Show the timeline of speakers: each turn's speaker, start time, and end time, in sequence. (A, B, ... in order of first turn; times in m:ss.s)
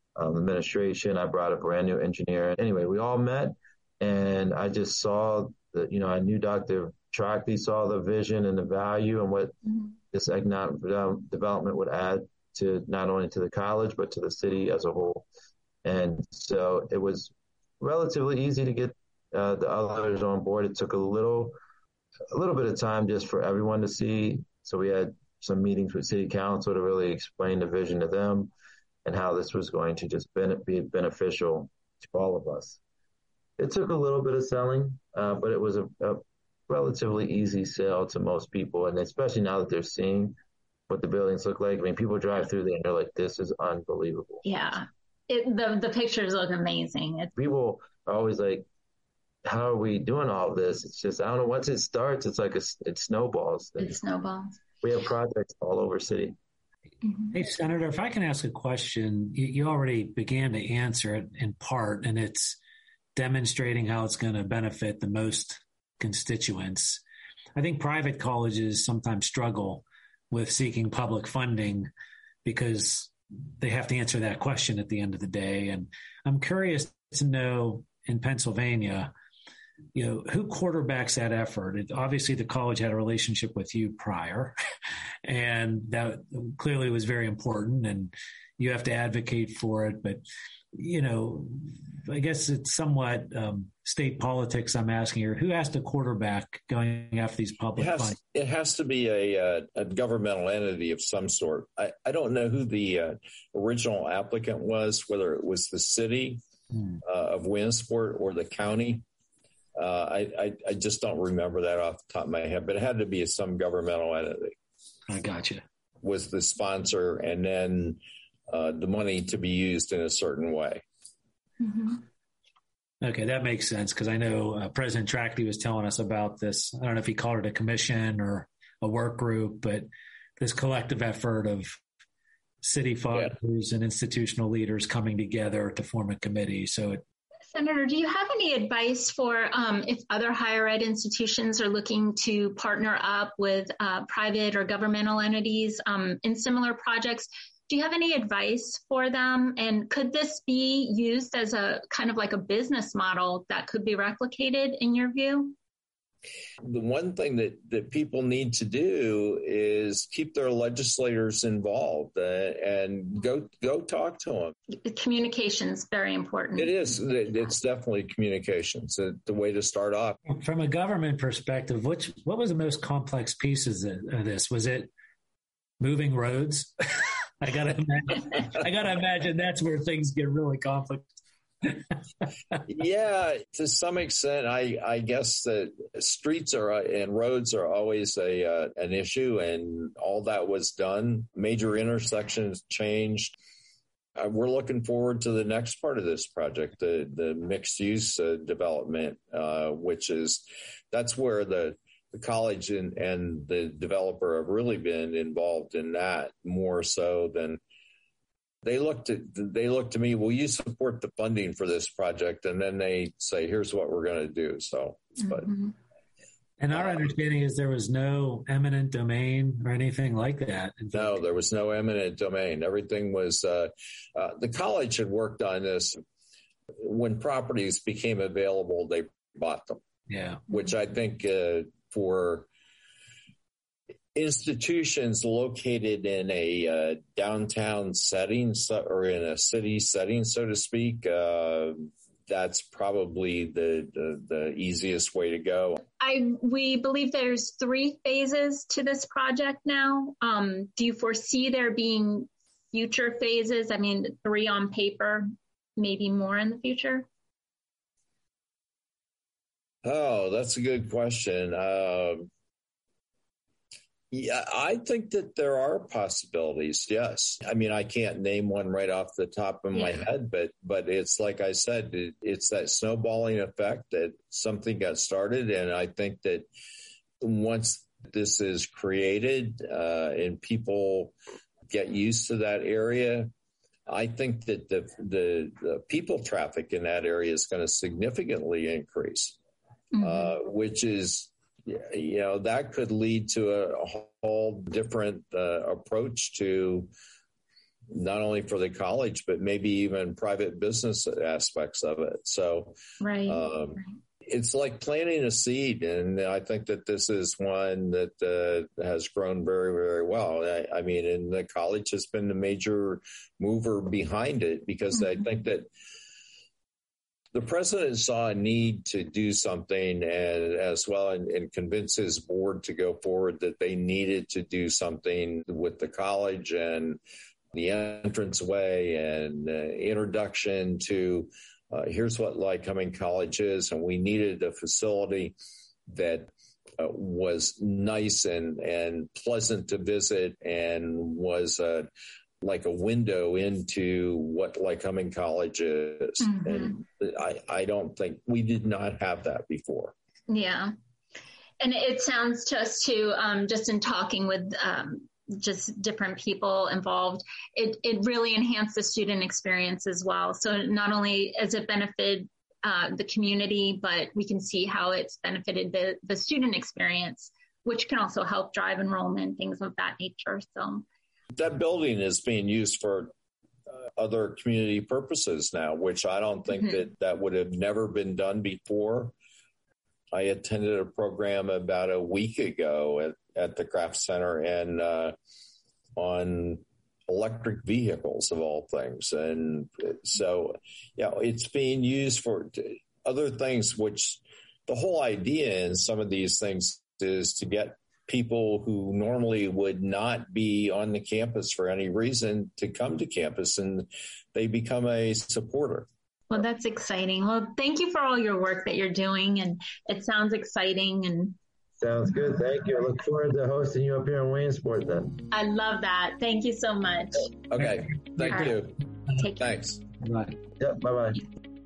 0:00.2-0:09.6 A
0:10.1-0:15.2 A
0:15.8-0:21.5 A
0:22.3-0:28.5 A
0:29.0-0:32.8 A
0:33.6-0:40.4 A
0:40.9-0:44.4 A
0:44.4-0:47.3 B
0:47.4-0:48.6 A
0:49.4-0:54.0 A
0:53.8-0:54.6 B
0:54.8-0:56.4 A
0:57.0-0:57.3 B
0:57.3-1:02.6 C
1:03.1-1:07.0 C
1:07.6-1:11.9 C
1:12.4-1:19.1 C
1:19.9-1:24.5 C
1:25.2-1:30.2 C
1:30.7-1:38.2 C
1:37.8-1:46.4 D
1:47.0-1:49.0 D
1:49.8-1:54.6 D
1:55.1-1:55.6 C
1:56.0-2:00.8 D
2:01.6-2:02.0 B
2:03.0-2:09.9 C
2:10.4-2:11.8 C
2:12.6-2:17.0 C
2:17.5-2:35.5 B
2:36.6-2:44.5 D
2:44.7-2:46.8 B
2:46.6-2:50.2 D
2:50.3-2:54.9 C
2:55.8-2:56.7 C
2:57.4-3:01.7 C
3:02.7-3:13.4 D
3:14.2-3:27.6 D
3:28.6-3:35.5 D
3:35.3-3:35.7 B
3:36.6-3:41.2 C
3:36.7-3:37.0 D
3:40.9-3:46.0 D
3:46.8-3:49.8 D
3:50.1-3:50.4 C
3:50.5-3:52.5 D
3:54.1-4:05.8 D
4:06.0-4:15.2 B
4:15.8-4:17.1 B
4:19.8-4:22.3 D
4:24.1-4:36.5 D
4:29.7-4:30.0 B
4:37.2-4:41.1 D
4:41.7-4:43.3 D
4:43.9-4:49.4 D
4:49.9-4:50.3 B
4:50.0-4:56.9 D
4:57.9-5:15.7 D
5:03.0-5:03.8 B
5:17.3-5:27.0 D
5:27.5-5:35.4 D
5:35.9-5:41.9 D
5:42.4-5:49.9 D
5:46.2-5:46.8 B
5:50.3-5:50.7 B
5:51.6-6:10.8 B
6:11.3-6:13.1 D
6:14.0-6:19.1 D
6:20.1-6:25.1 D
6:26.0-6:45.9 D
6:46.3-6:51.4 B
6:51.8-6:55.2 A
6:55.3-6:57.4 B
6:57.5-6:58.8 D
6:59.1-6:59.5 B
6:59.4-6:59.8 D
7:00.0-7:00.4 C
7:00.6-7:01.2 A